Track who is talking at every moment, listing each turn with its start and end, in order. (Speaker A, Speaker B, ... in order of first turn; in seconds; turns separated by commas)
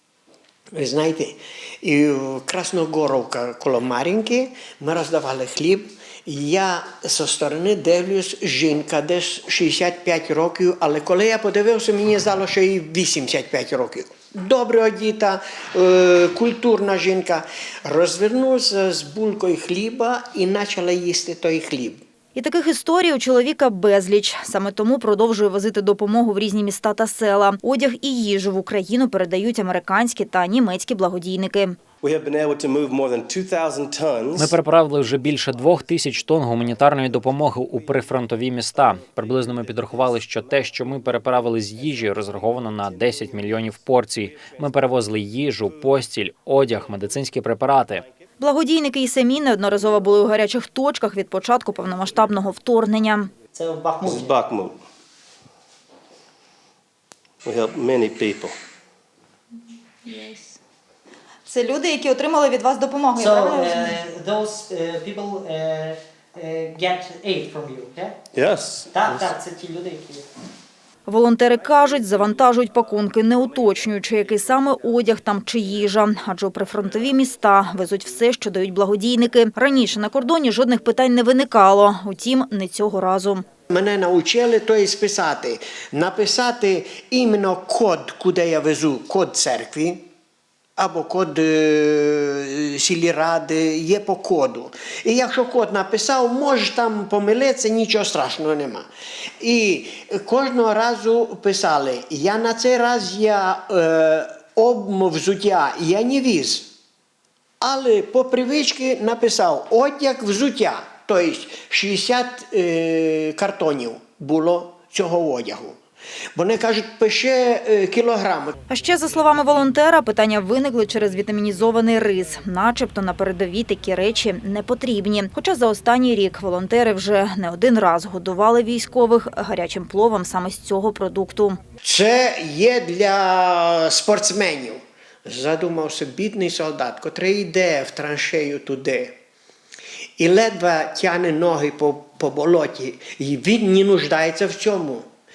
Speaker A: 0.8-22.0, Speaker B: 22.4-31.8, Speaker C: 32.0-34.6, Speaker D: 34.4-48.1, Speaker B: 48.4-53.3, Speaker E: 53.5-54.4, Speaker C: 54.0-54.8, Speaker C: 57.4-58.6, Speaker B: 60.0-60.6, Speaker B: 61.5-64.0, Speaker E: 63.1-68.2, Speaker C: 68.3-69.3, Speaker E: 68.9-70.3, Speaker B: 71.1-83.5, Speaker A: 83.7-90.0, Speaker A: 90.8-98.9, Speaker A: 99.4-106.7, Speaker A: 107.6-115.8, Speaker A: 116.3-118.5, Speaker B: 118.7-131.6, Speaker A: 131.8-139.2, Speaker A: 140.2-145.1